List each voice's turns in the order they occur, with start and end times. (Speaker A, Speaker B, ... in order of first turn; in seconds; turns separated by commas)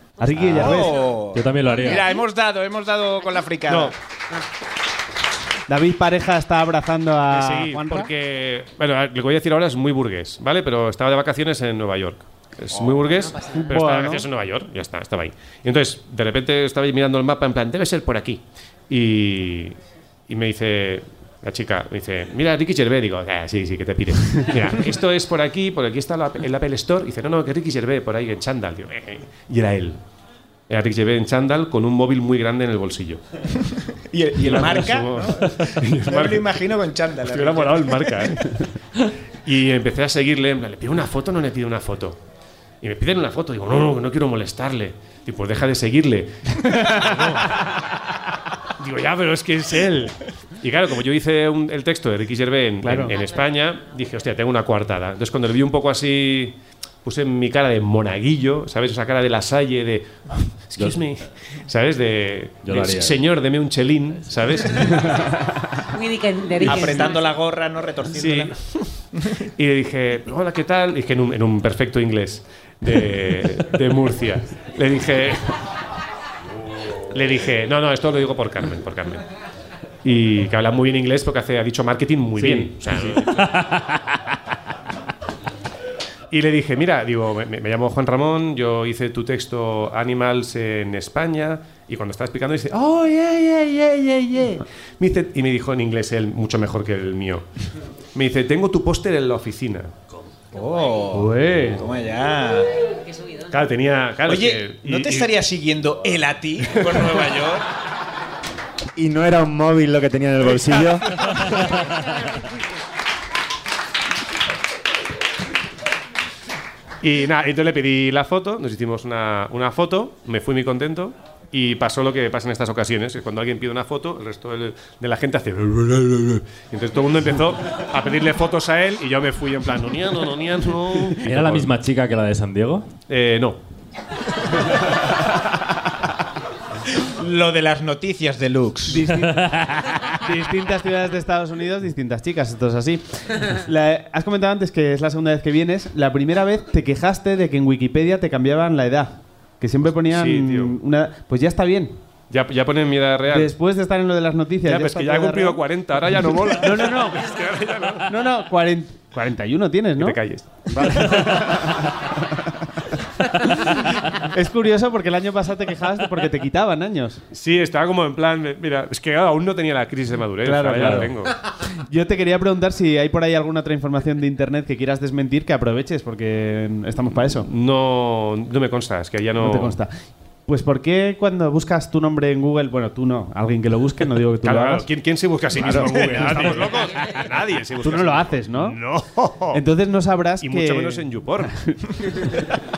Speaker A: 0.2-1.0, Speaker B: 0.4-0.8, Speaker C: 0.4-3.9, Speaker B: 1.3-2.1, Speaker D: 1.9-2.2, Speaker E: 3.7-3.9, Speaker A: 5.7-8.1, Speaker E: 7.3-19.8, Speaker C: 12.8-13.1, Speaker A: 13.5-14.3, Speaker E: 20.3-30.0, Speaker E: 30.7-33.2, Speaker C: 33.8-37.9, Speaker E: 34.4-36.6, Speaker E: 37.2-42.2, Speaker E: 42.8-47.7, Speaker E: 48.8-65.1, Speaker A: 52.8-53.2, Speaker B: 60.8-61.1, Speaker B: 62.6-63.3, Speaker D: 65.8-67.4, Speaker C: 66.7-68.5, Speaker E: 68.1-68.9, Speaker E: 69.5-75.6, Speaker E: 77.1-79.2, Speaker E: 80.0-83.7, Speaker A: 82.4-82.7, Speaker B: 83.5-83.7, Speaker E: 86.3-97.5, Speaker E: 98.2-100.0, Speaker C: 100.5-102.7, Speaker A: 101.1-101.8, Speaker E: 103.5-105.3, Speaker C: 104.3-107.7, Speaker F: 109.0-111.7, Speaker D: 111.9-112.3, Speaker E: 117.0-131.7, Speaker B: 131.2-132.9, Speaker E: 133.1-133.6, Speaker C: 137.0-139.0, Speaker A: 138.9-139.6, Speaker B: 139.4-140.0, Speaker A: 140.1-151.9, Speaker E: 149.9-150.8, Speaker E: 152.3-153.5, Speaker A: 153.3-155.6, Speaker E: 154.7-158.1, Speaker A: 156.6-157.2, Speaker A: 158.1-162.6, Speaker E: 160.0-160.7, Speaker A: 163.3-167.2, Speaker E: 167.3-171.4, Speaker A: 170.4-177.5, Speaker E: 177.4-179.8, Speaker A: 179.4-179.9, Speaker A: 180.5-184.9, Speaker E: 184.4-189.6, Speaker A: 185.6-186.7, Speaker A: 187.8-188.8, Speaker A: 189.5-192.5, Speaker E: 190.4-191.5